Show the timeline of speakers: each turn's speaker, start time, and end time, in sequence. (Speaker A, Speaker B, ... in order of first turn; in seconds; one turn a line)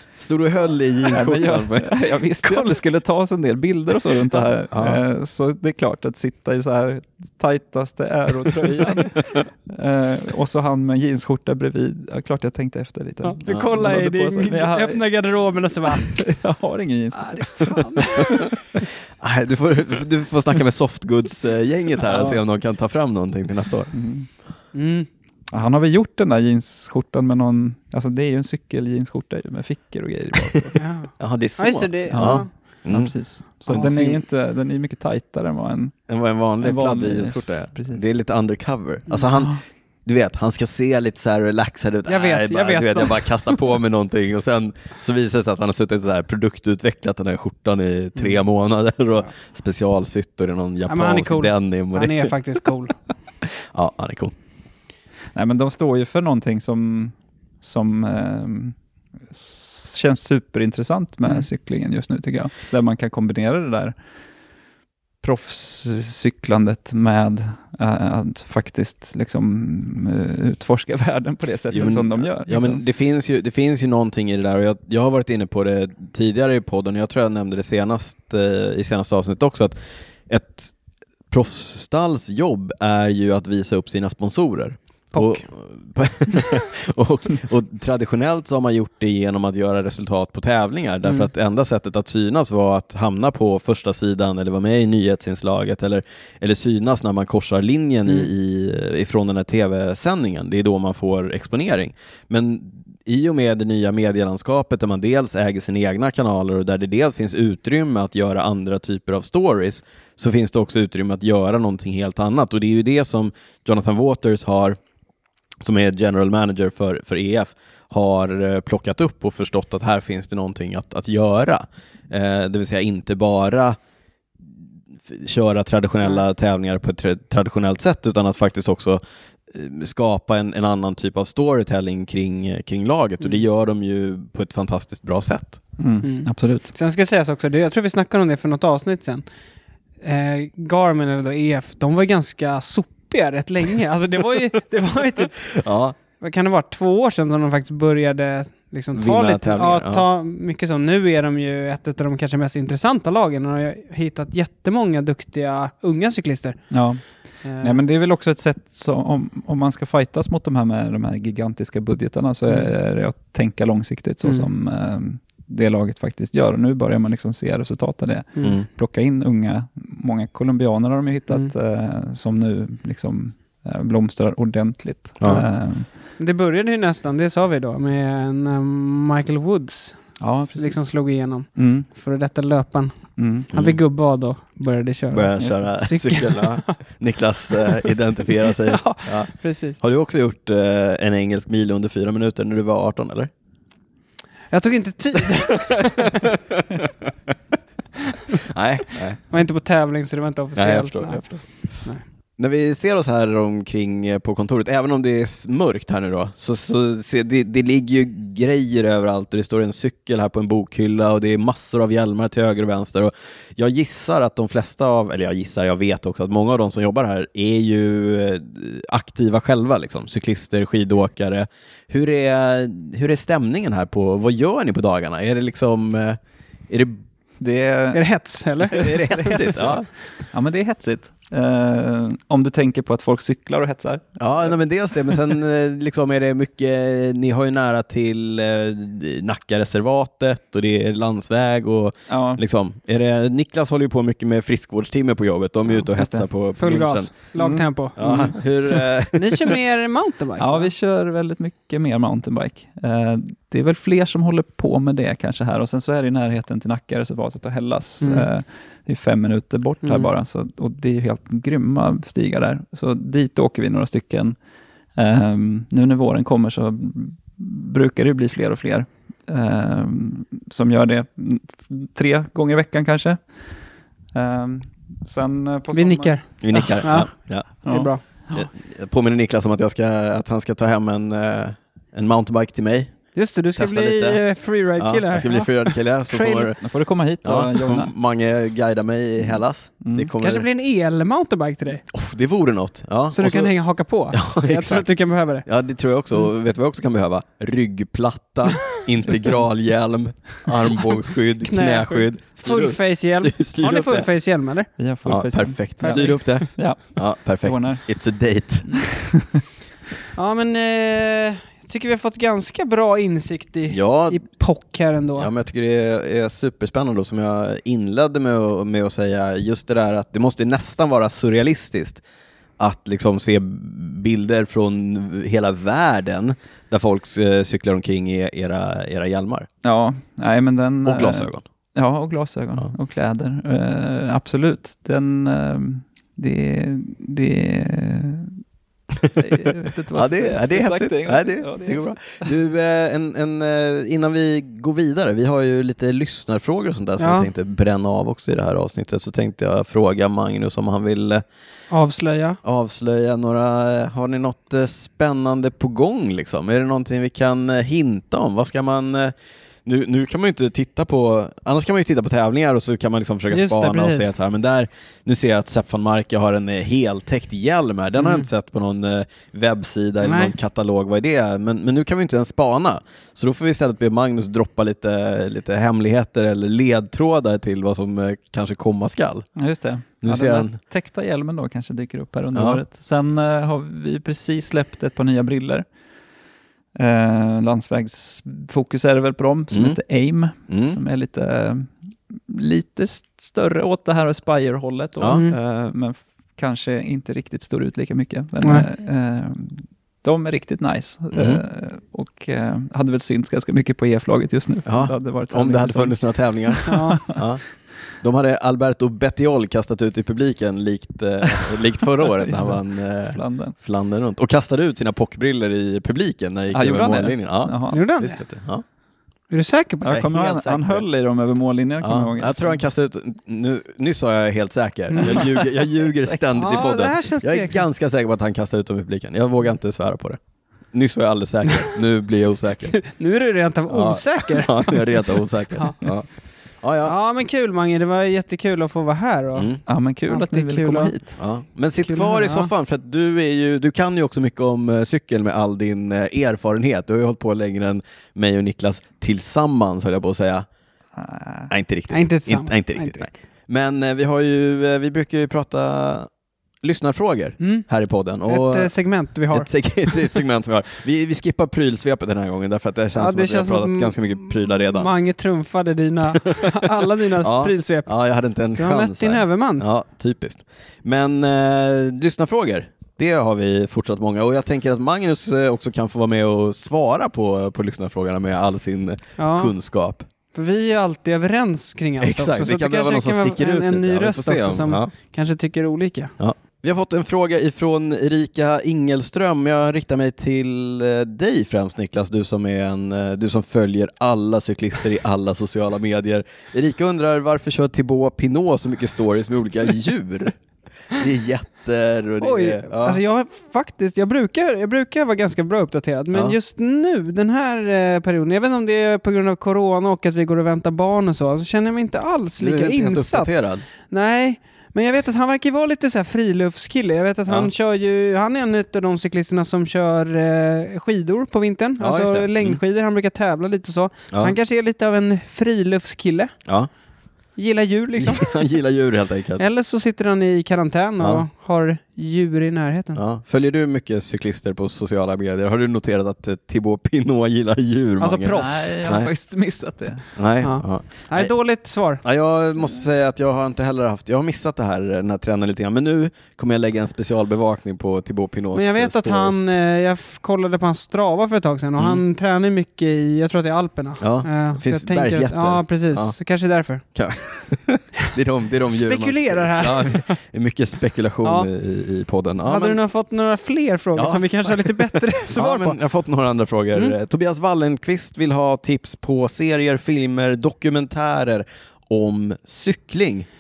Speaker A: 0.1-2.8
Speaker B: 1.1-15.0
Speaker A: 4.7-5.0
Speaker C: 13.2-16.2
Speaker B: 15.9-18.1
Speaker C: 17.1-18.5
Speaker A: 19.2-23.9
Speaker B: 22.1-22.4
Speaker B: 23.9-24.3
Speaker C: 24.7-25.1
Speaker B: 25.5-30.8
Speaker C: 30.8-32.5
Speaker A: 31.2-33.1
Speaker B: 32.1-36.1
Speaker A: 33.7-34.2
Speaker C: 33.7-34.1
Speaker A: 36.1-52.4
Speaker B: 36.6-38.0
Speaker C: 42.1-43.5
Speaker C: 50.9-53.0
Speaker A: 53.7-54.3
Speaker B: 55.4-58.8
Speaker B: 59.3-64.0
Speaker B: 65.2-72.8
Speaker A: 71.7-79.8
Speaker A: 80.3-80.7
Speaker A: 81.3-114.8
Speaker C: 85.1-85.4
Speaker A: 115.6-123.8
Speaker A: 125.1-135.6
Speaker B: 135.8-136.7
Speaker C: 136.0-139.2
Speaker C: 140.0-145.5
Speaker A: 145.4-146.0
Speaker C: 146.2-156.6
Speaker A: 148.9-150.1
Speaker B: 156.7-157.0
Speaker C: 157.4-157.8
Speaker B: 157.6-175.9
Speaker C: 162.5-162.7
Speaker C: 164.2-164.5
Speaker A: 175.2-175.4
Speaker C: 176.2-183.0
Speaker B: 180.2-180.9
Speaker B: 181.6-181.9
Speaker B: 183.2-183.5
Speaker C: 183.5-186.8
Speaker A: 183.5-183.8
Speaker A: 185.1-193.3
Speaker B: 185.4-185.7
Speaker C: 188.4-189.8
Speaker C: 194.5-196.2
Speaker A: 195.5-197.1
Speaker A: 198.5-199.2
Speaker C: 199.3-201.2
Speaker A: 200.6-201.5
Speaker A: 202.4-227.0
Speaker B: 227.4-228.1
Speaker C: 227.9-229.5
Speaker A: 228.7-229.9
Speaker B: 228.8-229.8
Speaker B: 230.3-234.5
Speaker A: 234.2-247.1
Speaker B: 242.1-242.4
Speaker B: 245.9-246.3
Speaker C: 246.6-248.3
Speaker B: 247.3-248.3
Speaker A: 248.0-249.6
Speaker C: 249.1-250.7
Speaker B: 250.4-264.4
Speaker C: 258.0-258.3
Speaker C: 259.8-260.1
Speaker B: 264.9-273.2
Speaker B: 274.1-276.6
Speaker C: 275.7-277.1
Speaker A: 276.4-277.6
Speaker C: 277.6-278.0
Speaker B: 277.6-278.4
Speaker A: 278.3-282.9
Speaker C: 283.1-286.5
Speaker A: 283.6-284.2
Speaker A: 284.8-286.6
Speaker B: 286.6-287.9
Speaker A: 287.2-290.4
Speaker B: 289.8-290.1
Speaker C: 290.2-291.8
Speaker A: 291.9-293.6
Speaker C: 293.1-295.4
Speaker A: 294.1-294.9
Speaker A: 295.4-304.1
Speaker C: 301.4-304.7
Speaker B: 304.8-307.8
Speaker A: 305.1-308.7
Speaker C: 305.8-306.2
Speaker B: 308.7-309.4
Speaker C: 310.1-315.3
Speaker A: 313.7-314.2
Speaker A: 315.2-322.0
Speaker A: 322.6-329.5
Speaker B: 329.6-338.4
Speaker A: 330.9-331.4
Speaker A: 339.0-351.2
Speaker B: 339.2-342.3
Speaker C: 347.0-347.3
Speaker C: 351.7-352.4
Speaker A: 352.4-379.3
Speaker C: 363.3-364.1
Speaker C: 368.0-368.3
Speaker C: 370.0-370.3
Speaker B: 379.4-385.6
Speaker A: 380.0-380.6
Speaker A: 382.3-382.6
Speaker B: 386.8-407.2
Speaker A: 389.5-389.8
Speaker A: 390.5-390.8
Speaker A: 395.0-395.2
Speaker C: 395.1-395.4
Speaker A: 401.1-401.4
Speaker A: 404.6-407.4
Speaker C: 406.7-407.0
Speaker A: 408.0-418.6
Speaker B: 412.0-413.6
Speaker B: 416.5-417.8
Speaker C: 417.7-418.2
Speaker C: 419.3-420.1
Speaker B: 419.8-422.6
Speaker A: 419.9-420.8
Speaker A: 421.8-430.2
Speaker C: 424.9-425.2
Speaker B: 425.1-426.2
Speaker C: 426.4-427.7
Speaker A: 430.7-432.8
Speaker C: 432.7-435.8
Speaker A: 433.7-436.1
Speaker A: 436.6-436.9
Speaker C: 436.8-439.5
Speaker A: 439.4-439.6
Speaker B: 439.7-441.2
Speaker C: 440.1-440.9
Speaker A: 441.2-450.5
Speaker C: 441.9-442.5
Speaker B: 451.0-451.5
Speaker A: 451.5-456.1
Speaker C: 451.9-453.1
Speaker A: 456.6-458.7
Speaker C: 457.4-457.7
Speaker C: 458.3-459.5
Speaker A: 459.3-464.9
Speaker C: 463.0-467.9
Speaker A: 466.1-480.1
Speaker C: 468.6-469.6
Speaker C: 479.2-479.5
Speaker C: 480.3-486.1
Speaker A: 482.0-484.9
Speaker A: 486.2-500.4
Speaker A: 500.9-503.0
Speaker C: 502.2-513.3
Speaker A: 512.4-513.7
Speaker C: 513.8-526.3
Speaker A: 521.8-522.6
Speaker A: 524.1-524.4
Speaker C: 527.4-528.4
Speaker A: 528.0-529.4
Speaker C: 529.4-533.0
Speaker A: 533.0-539.1
Speaker C: 538.0-538.7
Speaker B: 538.3-540.1
Speaker A: 540.2-541.3
Speaker C: 540.4-542.0
Speaker A: 542.0-549.4
Speaker C: 548.5-556.8
Speaker A: 554.0-556.1
Speaker A: 556.9-562.8
Speaker C: 558.7-560.1
Speaker C: 561.2-561.5
Speaker C: 562.5-565.8
Speaker A: 564.0-573.3